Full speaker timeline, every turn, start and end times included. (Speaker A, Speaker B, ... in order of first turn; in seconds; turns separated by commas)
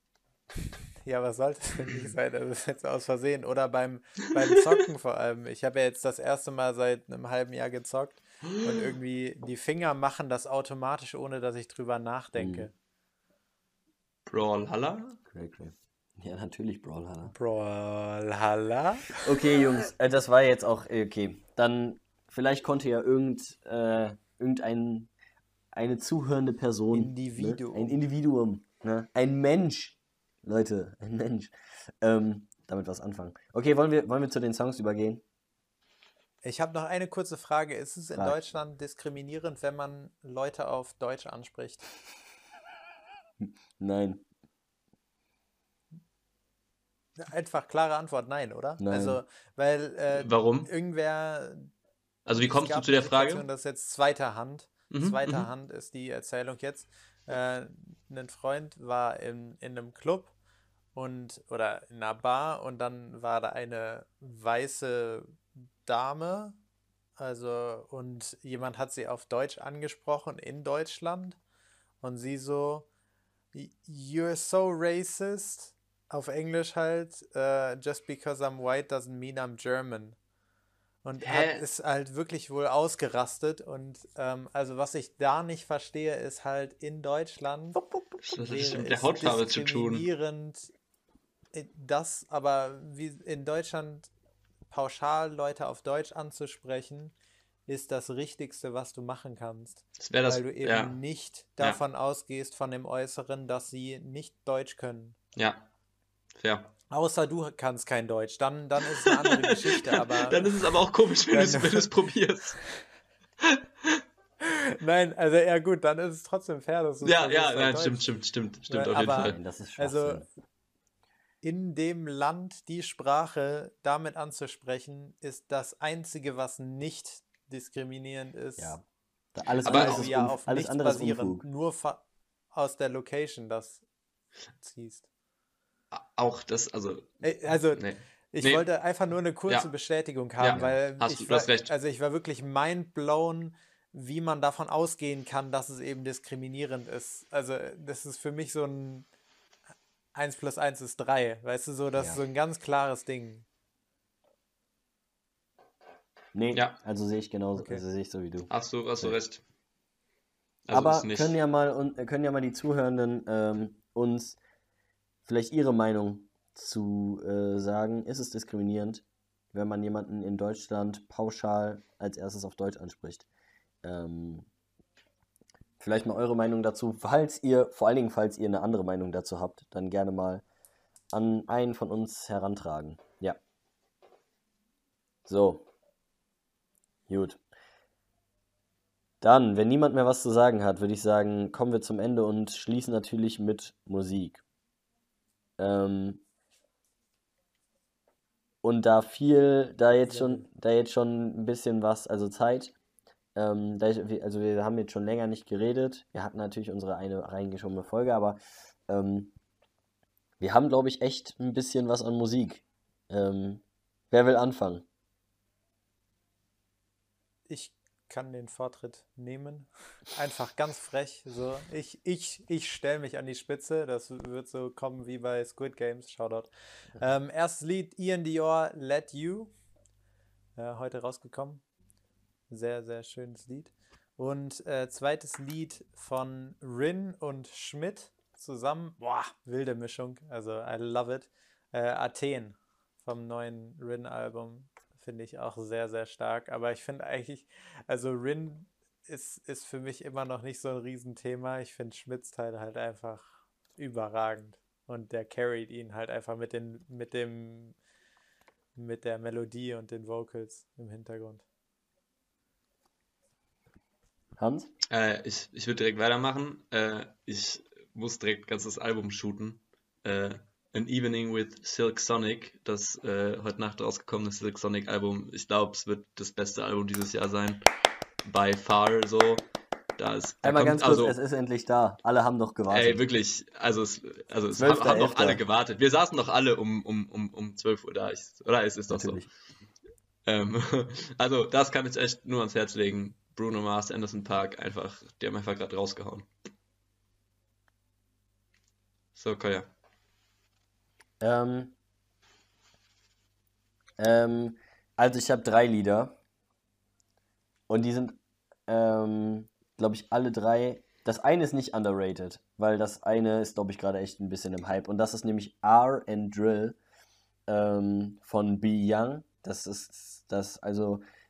Speaker A: 1.0-12.7, Speaker B: 12.4-12.7, Speaker C: 14.3-15.2, Speaker B: 15.3-17.3, Speaker A: 17.3-19.2, Speaker B: 19.1-25.1, Speaker B: 25.8-35.2, Speaker A: 26.9-28.0, Speaker A: 36.4-41.9, Speaker B: 43.4-44.2, Speaker A: 47.2-51.7, Speaker B: 48.8-49.2, Speaker C: 50.1-50.7, Speaker C: 52.3-53.5, Speaker A: 52.4-60.3, Speaker C: 54.9-55.5, Speaker A: 61.0-66.6, Speaker A: 67.2-71.4, Speaker A: 72.0-72.9, Speaker A: 73.5-80.2, Speaker A: 81.0-87.8, Speaker C: 81.2-81.7, Speaker B: 87.8-88.2, Speaker C: 88.2-90.0, Speaker A: 88.3-90.7, Speaker A: 91.5-94.1, Speaker A: 94.7-97.1, Speaker A: 97.7-105.2, Speaker C: 100.0-101.0, Speaker C: 105.4-105.6, Speaker C: 106.4-106.7, Speaker A: 106.9-110.6, Speaker C: 109.0-112.6, Speaker A: 111.3-111.9, Speaker C: 113.4-114.0, Speaker A: 114.4-118.1, Speaker C: 117.0-119.4, Speaker A: 118.7-120.3, Speaker B: 119.2-120.3, Speaker A: 121.4-128.8, Speaker B: 128.6-131.4, Speaker C: 129.6-130.1, Speaker A: 129.7-133.8, Speaker A: 134.6-135.1, Speaker C: 135.9-138.7, Speaker A: 137.2-149.1, Speaker C: 140.4-141.7, Speaker A: 150.2-153.4, Speaker B: 156.3-159.2, Speaker A: 157.6-157.8, Speaker C: 158.5-159.4, Speaker C: 160.7-161.4, Speaker B: 160.7-164.4, Speaker B: 165.2-173.3, Speaker B: 173.8-174.5, Speaker B: 175.8-180.4, Speaker B: 181.1-183.4, Speaker B: 185.3-185.7, Speaker B: 187.1-187.4, Speaker B: 189.2-194.4, Speaker B: 195.6-196.2, Speaker B: 198.6-202.7, Speaker A: 200.1-200.5, Speaker B: 203.4-209.3, Speaker B: 210.4-214.9, Speaker A: 217.5-229.5, Speaker A: 230.6-231.6, Speaker A: 232.5-257.8, Speaker A: 258.8-261.4, Speaker B: 264.4-264.7, Speaker C: 264.9-277.6, Speaker C: 278.2-279.4, Speaker C: 280.0-281.1, Speaker B: 280.4-283.0, Speaker C: 282.7-289.2, Speaker B: 284.6-285.4, Speaker B: 288.9-289.3, Speaker C: 290.3-296.3, Speaker C: 299.1-299.7, Speaker B: 301.2-301.8, Speaker B: 304.0-306.1, Speaker B: 307.7-316.8, Speaker B: 317.5-321.0